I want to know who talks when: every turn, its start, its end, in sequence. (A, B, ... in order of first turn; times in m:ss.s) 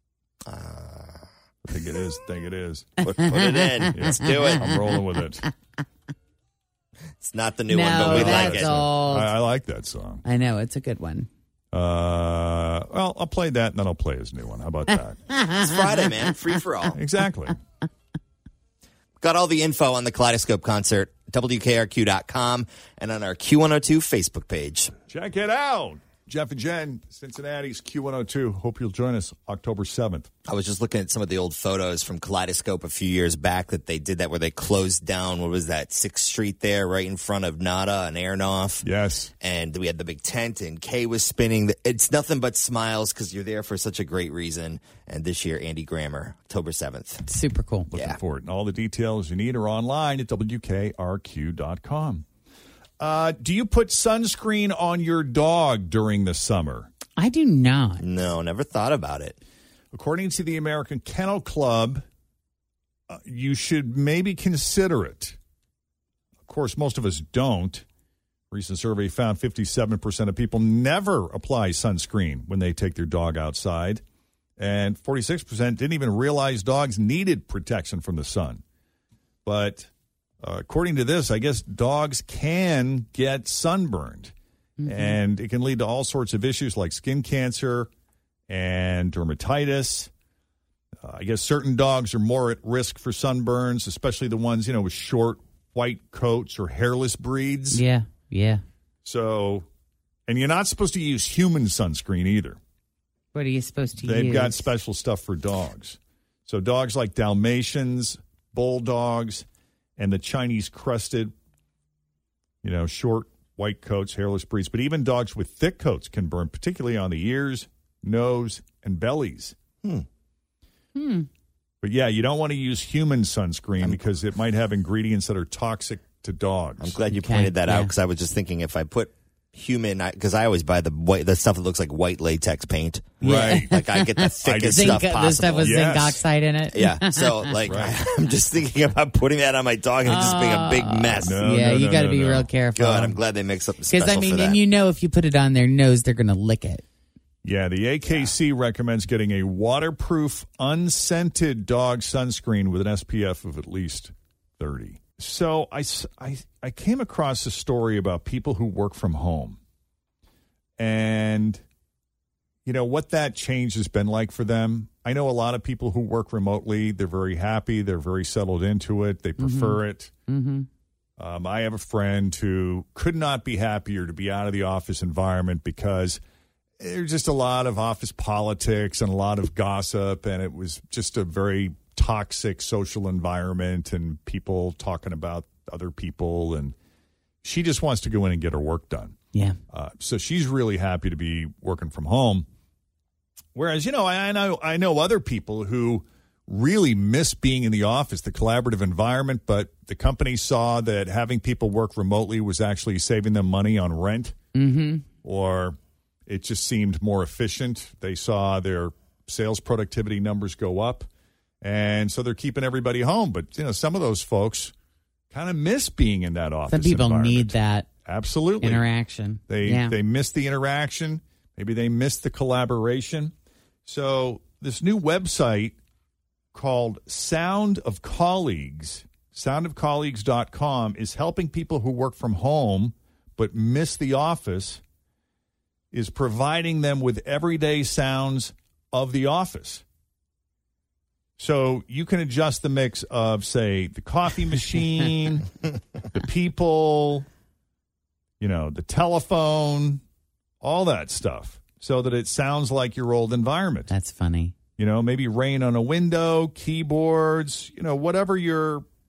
0:00.4-0:01.2 A
0:01.6-0:02.9 B
0:03.0-0:04.7 A
0:03.2-0:05.0 C
0:03.9-0:05.4 B
0:07.2-0:08.8 A
0:07.7-0:09.3 C
0:08.0-0:10.2 B
0:10.2-0:11.3 C
0:11.7-0:15.2 B
0:15.3-0:16.1 C
0:15.6-0:17.0 A
0:16.9-0:17.6 B
0:19.2-0:24.9 A
0:25.1-0:30.3 B
0:30.5-0:38.8 A
0:38.8-0:39.3 B
0:39.4-0:47.2 A
0:47.3-0:47.9 C
0:47.9-0:52.2 B
0:53.0-0:56.9 B
0:57.2-0:58.0 C
0:58.0-0:59.4 A
0:59.9-1:02.0 B
1:03.1-1:05.4 B
1:06.4-1:07.8 B
1:08.5-1:14.0 B
1:14.6-1:18.6 B
1:19.4-1:19.9 B
1:20.4-1:24.3 B
1:24.8-1:25.2 C
1:24.9-1:27.9 B
1:28.5-1:30.1 B
1:31.0-1:37.8 B
1:37.7-1:38.6 C
1:39.0-1:39.7 B
1:40.3-1:42.6 B
1:43.3-1:44.6 C
1:44.0-1:49.4 B
1:50.0-1:51.3 B
1:52.6-1:59.6 B
2:00.9-2:01.3 C
2:01.8-2:07.0 B
2:06.8-2:15.8 A
2:07.1-2:07.9 C
2:13.2-2:17.5 C
2:13.2-2:13.8 B
2:14.4-2:16.2 B
2:16.7-2:21.4 A
2:17.7-2:18.0 B
2:20.0-2:23.2 C
2:21.2-2:22.5 B
2:22.8-2:24.6 A
2:23.9-2:26.8 C
2:27.4-2:39.6 B
2:40.8-2:41.6 B
2:42.6-2:50.1 B
2:49.4-2:50.7 C
2:51.2-2:56.2 B
2:56.8-3:06.8 B
3:07.4-3:09.2 B
3:09.7-3:12.4 B
3:13.5-3:24.3 B
3:24.5-3:25.0 C
3:25.2-3:31.1 B
3:31.6-3:34.7 B
3:35.3-3:38.8 B
3:36.7-3:37.9 C
3:38.6-3:39.9 C
3:39.5-3:43.3 B
3:43.8-3:45.8 B
3:46.5-3:54.8 B
3:55.9-3:59.8 B
4:01.4-4:05.4 B
4:06.1-4:07.2 B
4:08.4-4:10.0 B
4:10.6-4:13.9 B
4:13.9-4:14.6 C
4:14.8-4:18.8 B